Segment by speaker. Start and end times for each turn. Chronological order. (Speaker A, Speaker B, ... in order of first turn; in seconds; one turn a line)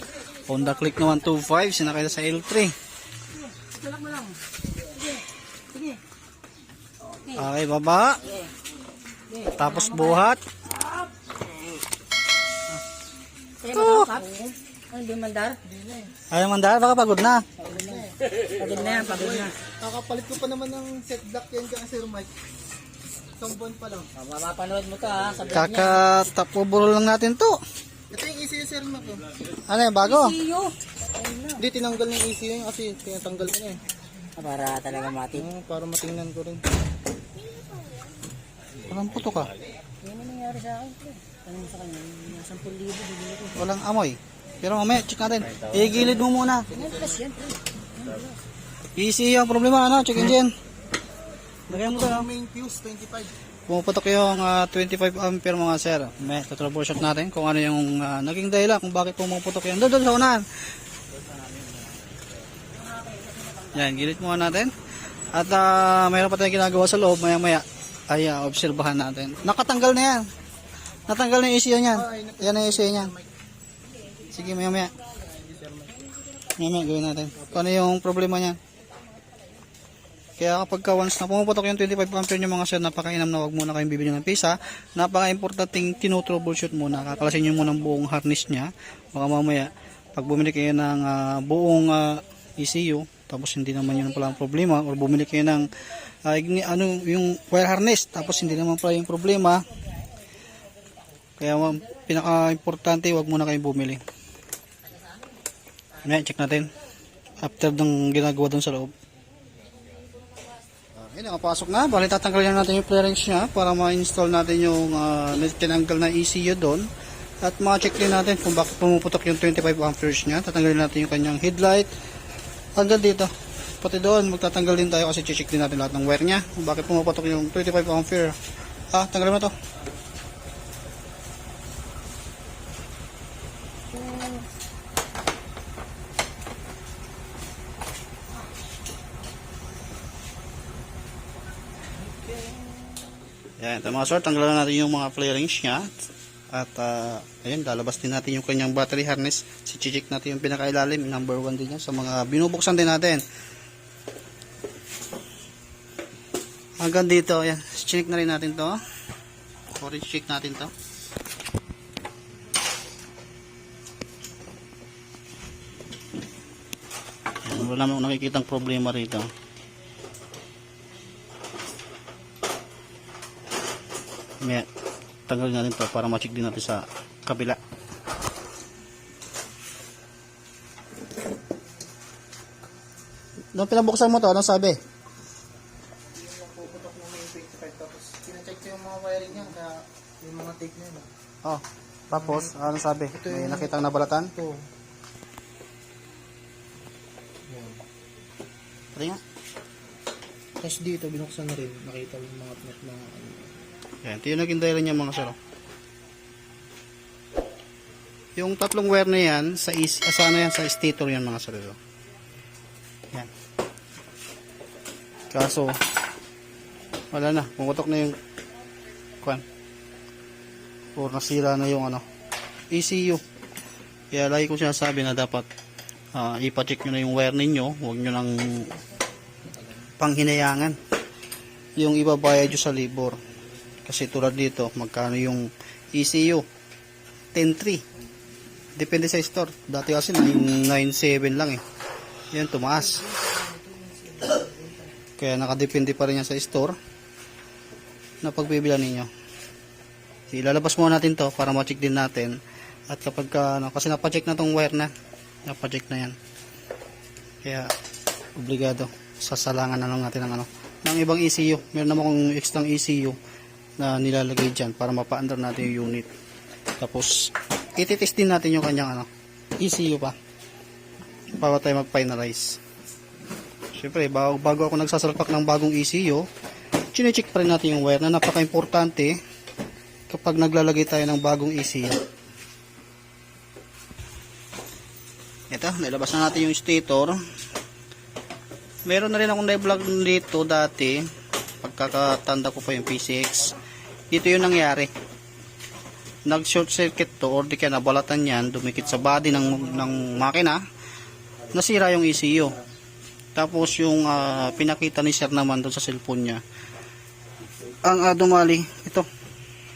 Speaker A: 0.5-2.7
Speaker B: 3.7-4.4
Speaker A: 7.3-8.3
Speaker B: 9.3-10.1
Speaker A: 9.4-10.4
Speaker B: 13.6-15.6
Speaker A: 13.7-14.2
Speaker C: 15.6-16.1
Speaker A: 16.3-17.5
Speaker C: 17.6-22.3
Speaker B: 17.6-19.5
Speaker C: 23.3-24.1
Speaker B: 24.2-26.0
Speaker A: 25.5-27.6
Speaker C: 28.1-29.3
Speaker A: 29.7-30.4
Speaker B: 30.1-31.6
Speaker C: 31.6-33.8
Speaker B: 34.4-35.5
Speaker C: 35.3-36.6
Speaker A: 38.8-39.5
Speaker B: 40.0-43.5
Speaker A: 43.5-46.8
Speaker C: 46.7-47.3
Speaker B: 46.8-48.3
Speaker A: 49.0-50.5
Speaker A: 51.7-52.3
Speaker C: 51.7-53.3
Speaker A: 53.7-60.5
Speaker A: 63.7-64.7
Speaker A: 65.3-70.3
Speaker A: 71.1-73.1
Speaker C: 72.0-73.3
Speaker A: 74.3-74.9
Speaker C: 75.4-76.0
Speaker A: 76.6-78.6
Speaker A: 80.4-95.7
Speaker A: 96.2-99.7
Speaker A: 101.4-104.0
Speaker A: 106.0-106.7
Speaker A: 107.4-108.9
Speaker A: 111.0-116.9
Speaker A: 117.4-121.9
Speaker A: 122.8-128.4
Speaker A: 128.9-129.5
Speaker A: 143.6-145.9
Speaker A: 146.5-153.2
Speaker A: 156.8-158.8
Speaker A: 159.7-160.7
Speaker A: 167.4-169.3
Speaker A: 174.4-174.7
Speaker A: 175.3-177.6
Speaker A: 183.5-184.8
Speaker C: 186.2-191.1
Speaker A: 191.4-194.3
Speaker C: 192.1-192.5
Speaker C: 193.1-194.6
Speaker C: 197.5-197.8
Speaker A: 198.9-199.2
Speaker C: 200.6-203.6
Speaker A: 204.0-205.4
Speaker A: 208.4-211.8
Speaker A: 215.3-215.8
Speaker A: 217.1-218.2
Speaker A: 221.0-222.0
Speaker A: 222.7-223.2
Speaker A: 224.1-225.5
Speaker A: 226.1-228.7
Speaker A: 230.0-230.8
Speaker A: 231.8-233.2
Speaker A: 233.9-236.4
Speaker A: 237.3-237.8
Speaker A: 238.8-241.6
Speaker A: 242.3-243.1
Speaker A: 245.2-246.8
Speaker A: 248.2-249.1
Speaker A: 250.3-252.4
Speaker A: 252.9-254.9
Speaker A: 255.5-256.1
Speaker A: 257.4-257.7
Speaker A: 258.4-263.2
Speaker A: 263.8-266.1
Speaker A: 266.8-269.1
Speaker A: 269.6-270.1
Speaker A: 271.4-272.6
Speaker A: 273.7-276.3
Speaker A: 276.9-279.2
Speaker A: 280.1-282.0
Speaker A: 285.5-287.2
Speaker A: 288.9-291.1
Speaker A: 291.6-293.6
Speaker A: 294.1-294.9
Speaker A: 296.3-300.6
Speaker A: 301.5-302.6
Speaker A: 303.4-306.4
Speaker A: 307.8-309.1